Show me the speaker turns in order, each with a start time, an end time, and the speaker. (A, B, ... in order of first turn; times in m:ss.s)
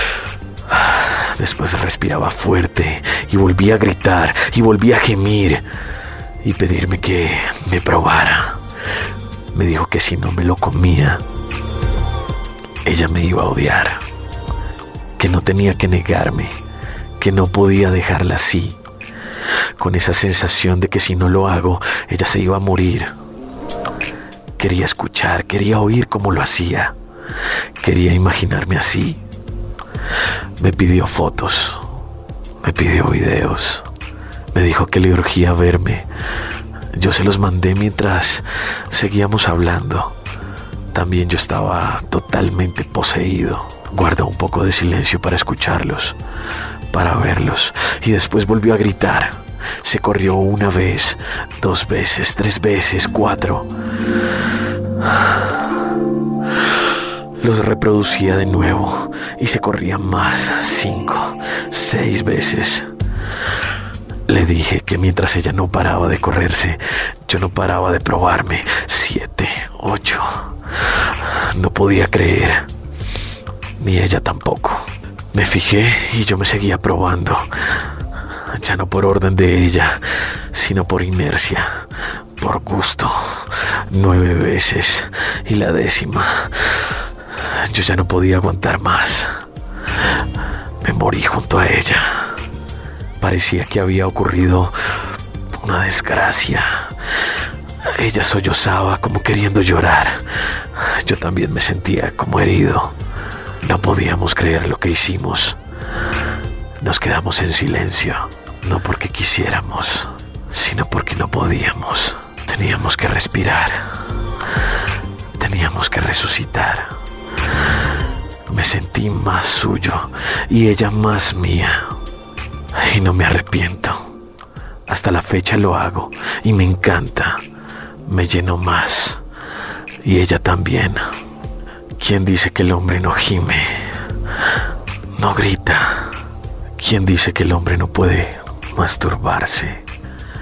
0:00.7-0:05.6 A
0:06.4-0:08.6 A
0:09.5-0:11.2 A
0:12.8-0:14.0 A
0:15.2-0:16.6 A
0:17.2-0:18.8 A
0:19.8-0:23.1 A
0:24.6-0:27.0 A
0:27.8-0:29.2 A
0:30.6-0:31.8 A
0:32.6-0:33.9 A
0:34.5-0:36.1 A
0:36.9-0:40.2 A
0:40.9-0:46.2 A
0:46.9-0:53.7 A
0:55.0-0:55.6 A
0:57.4-1:02.9 A
1:04.3-1:12.7 A
1:13.8-1:17.5 A
1:18.5-1:21.8 A
1:22.4-1:29.3 A
1:30.8-1:32.4 A
1:33.2-1:34.7 A
1:35.6-1:36.9 A
1:37.8-1:43.0 A
1:43.6-1:45.6 A
1:46.8-1:53.9 A
1:55.4-1:56.9 A
1:58.5-2:01.9 A
2:02.7-2:04.0 A
2:04.9-2:07.4 A
2:08.1-2:09.2 A
2:10.0-2:11.0 A
2:12.0-2:13.9 A
2:15.2-2:16.2 A
2:16.8-2:19.8 A